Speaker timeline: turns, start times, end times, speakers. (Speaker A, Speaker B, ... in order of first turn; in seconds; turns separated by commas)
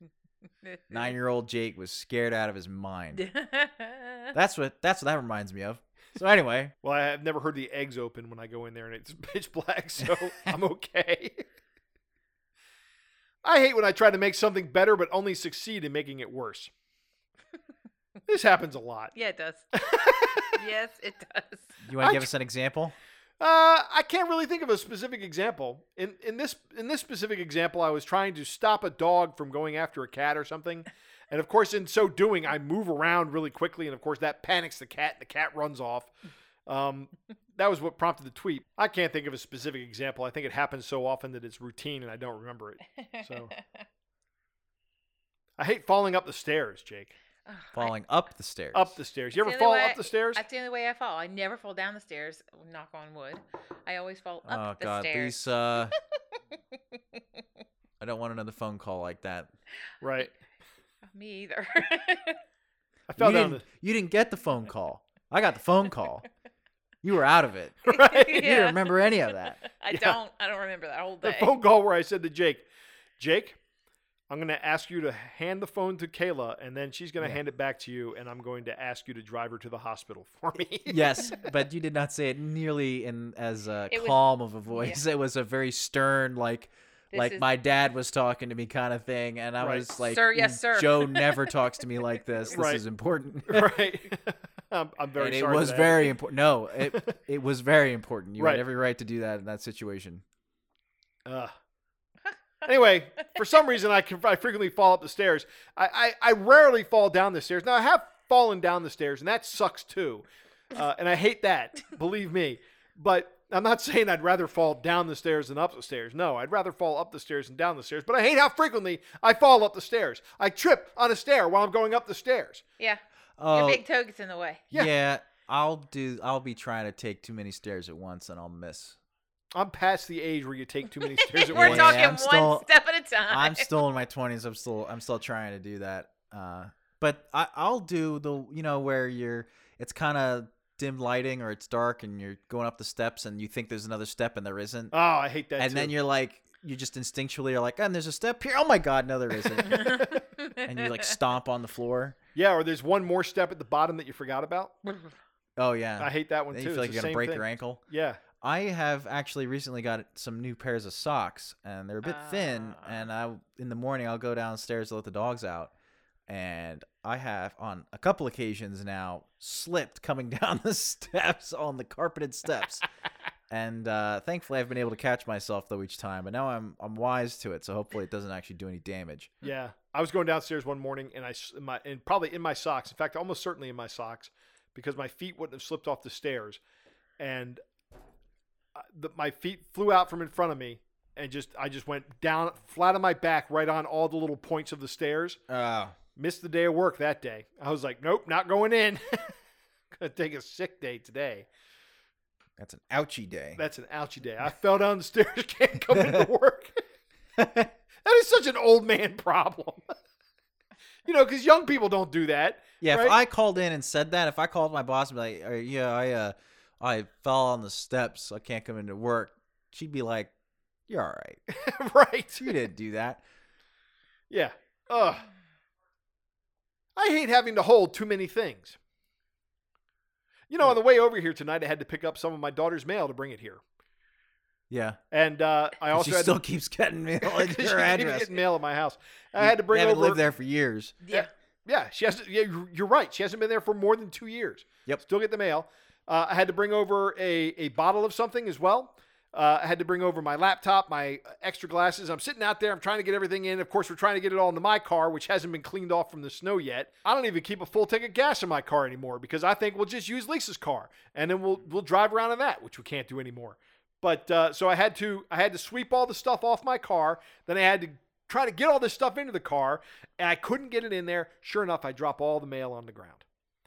Speaker A: 0.6-1.0, Speaker B: 0.9-3.3, Speaker A: 3.1-4.3, Speaker B: 4.3-6.7, Speaker C: 6.8-11.4, Speaker C: 13.4-16.7, Speaker C: 18.3-19.1, Speaker A: 19.1-21.8, Speaker C: 19.8-20.5, Speaker B: 21.8-22.9, Speaker C: 22.0-22.3, Speaker C: 23.4-36.1, Speaker C: 36.7-43.5, Speaker A: 43.0-43.8, Speaker C: 45.6-47.1, Speaker A: 47.5-47.9, Speaker B: 47.7-49.0, Speaker C: 48.7-50.4, Speaker A: 49.3-55.5, Speaker B: 54.5-56.0, Speaker B: 58.0-59.5, Speaker C: 60.0-60.3, Speaker A: 61.1-62.4, Speaker C: 63.1-63.6, Speaker B: 63.2-66.2, Speaker B: 67.0-69.6, Speaker C: 67.9-68.5, Speaker A: 68.1-69.1, Speaker A: 69.6-71.6, Speaker C: 69.9-70.2, Speaker C: 71.2-72.7, Speaker C: 73.2-73.6, Speaker C: 74.3-81.4, Speaker B: 80.9-93.8, Speaker A: 83.9-85.0, Speaker A: 87.1-87.5, Speaker C: 89.6-89.9, Speaker A: 90.0-91.5, Speaker C: 92.5-92.8, Speaker C: 93.5-96.1, Speaker B: 95.2-100.2, Speaker C: 101.3-101.5, Speaker C: 102.6-122.6, Speaker A: 122.8-124.7, Speaker B: 123.4-123.8, Speaker B: 124.7-129.0, Speaker C: 129.6-132.0, Speaker A: 131.2-133.7, Speaker B: 131.5-132.7, Speaker B: 133.3-144.9, Speaker C: 144.9-145.9, Speaker B: 145.6-152.2, Speaker A: 149.7-151.0, Speaker C: 152.3-154.8, Speaker B: 155.6-157.8, Speaker C: 156.0-158.2, Speaker B: 158.4-165.7, Speaker A: 162.0-163.1, Speaker B: 166.3-172.8, Speaker B: 173.5-179.4, Speaker C: 179.4-186.6, Speaker C: 187.2-187.6, Speaker C: 188.8-195.4, Speaker B: 195.5-196.0, Speaker C: 196.2-199.3, Speaker C: 199.9-201.5, Speaker B: 202.6-203.6, Speaker C: 203.6-206.8, Speaker B: 205.9-206.3, Speaker B: 207.4-207.7, Speaker C: 208.0-209.9, Speaker C: 211.1-213.2, Speaker B: 212.8-220.3, Speaker B: 220.9-221.4, Speaker C: 221.6-222.5, Speaker B: 222.4-223.2, Speaker C: 224.3-225.3, Speaker C: 227.0-228.8, Speaker C: 230.5-233.6, Speaker B: 234.7-235.0, Speaker C: 235.1-236.4, Speaker B: 235.9-238.4, Speaker C: 237.2-240.2, Speaker B: 239.4-241.0, Speaker A: 241.0-241.3, Speaker C: 241.1-273.2